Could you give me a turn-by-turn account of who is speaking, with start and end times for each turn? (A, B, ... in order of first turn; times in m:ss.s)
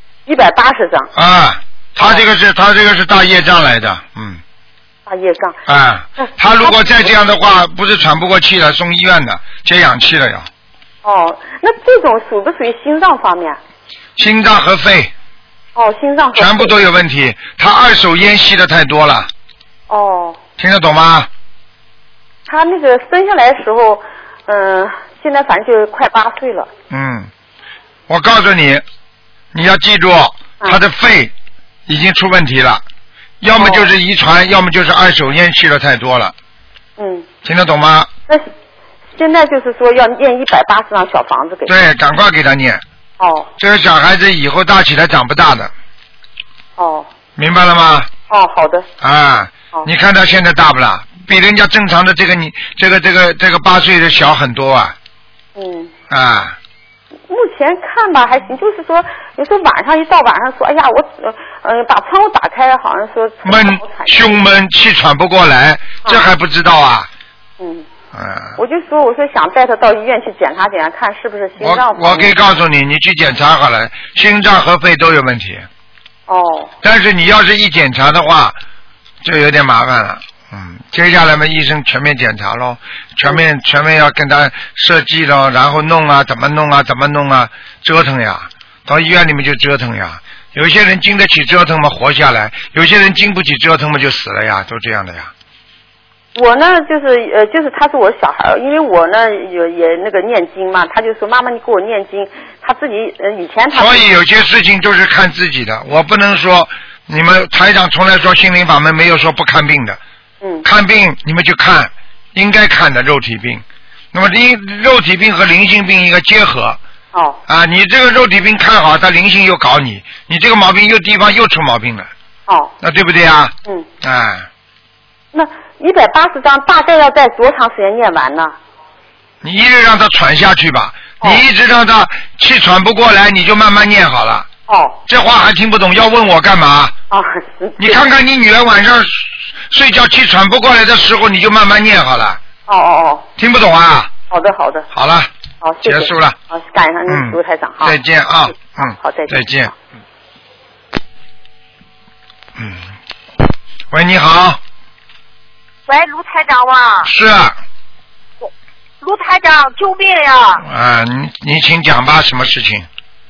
0:00.2-0:01.1 A
0:01.1-0:04.4 B
0:05.0-0:05.6 A
0:05.7-0:10.5 B
0:06.2-0:06.8 A
0:11.0-0:13.6 A
0:14.2-0:15.1 B
0:15.8-0:16.8 A
0:16.3-0:19.3 B
0:19.9-0:20.4 A
0:20.6-0:21.3 B
0:22.5-0:26.7 A
0:26.9-0:27.3 B
0:28.1-0:28.8 B
0:29.5-0:31.3 B
0:31.9-0:32.8 B
0:33.4-0:36.3 B
0:33.5-0:33.9 A
0:37.0-0:37.3 A
0:37.4-0:38.1 B
0:39.1-0:41.7 A
0:41.7-0:42.8 B
0:43.2-0:43.5 A
0:43.6-0:45.7 B
0:46.8-0:47.1 A
0:47.4-0:48.1 B
0:48.3-0:48.9 A
0:49.0-0:55.0 B
0:55.5-0:55.9 A
0:56.1-0:56.6 B
0:57.3-1:04.4 A
1:03.4-1:07.1 B
1:06.0-1:06.3 A
1:07.6-1:07.9 A
1:08.1-1:08.6 B
1:08.6-1:12.4 A
1:11.6-1:15.7 B
1:16.3-1:16.7 A
1:16.8-1:18.6 B
1:19.2-1:35.3 B
1:36.3-1:44.1 A
1:43.7-1:50.0 B
1:50.4-1:50.6 A
1:50.6-1:56.8 B
1:57.1-1:57.4 A
1:57.5-2:02.1 B
2:02.5-2:02.7 A
2:02.8-2:04.5 B
2:05.3-2:08.6 A
2:09.4-2:14.5 B
2:14.7-2:15.0 A
2:15.1-2:16.9 B
2:17.1-2:18.0 A
2:17.8-2:22.4 B
2:22.7-2:23.3 A
2:23.4-2:24.1 B
2:24.3-2:24.9 A
2:24.9-2:25.3 B
2:25.6-2:28.0 A
2:25.8-2:26.4 B
2:27.1-2:29.7 B
2:28.6-2:29.7 A
2:32.6-2:32.9 B
2:33.9-2:34.6 B
2:35.9-2:37.1 C
2:37.0-2:37.6 B
2:39.0-2:40.6 C
2:40.6-2:42.9 B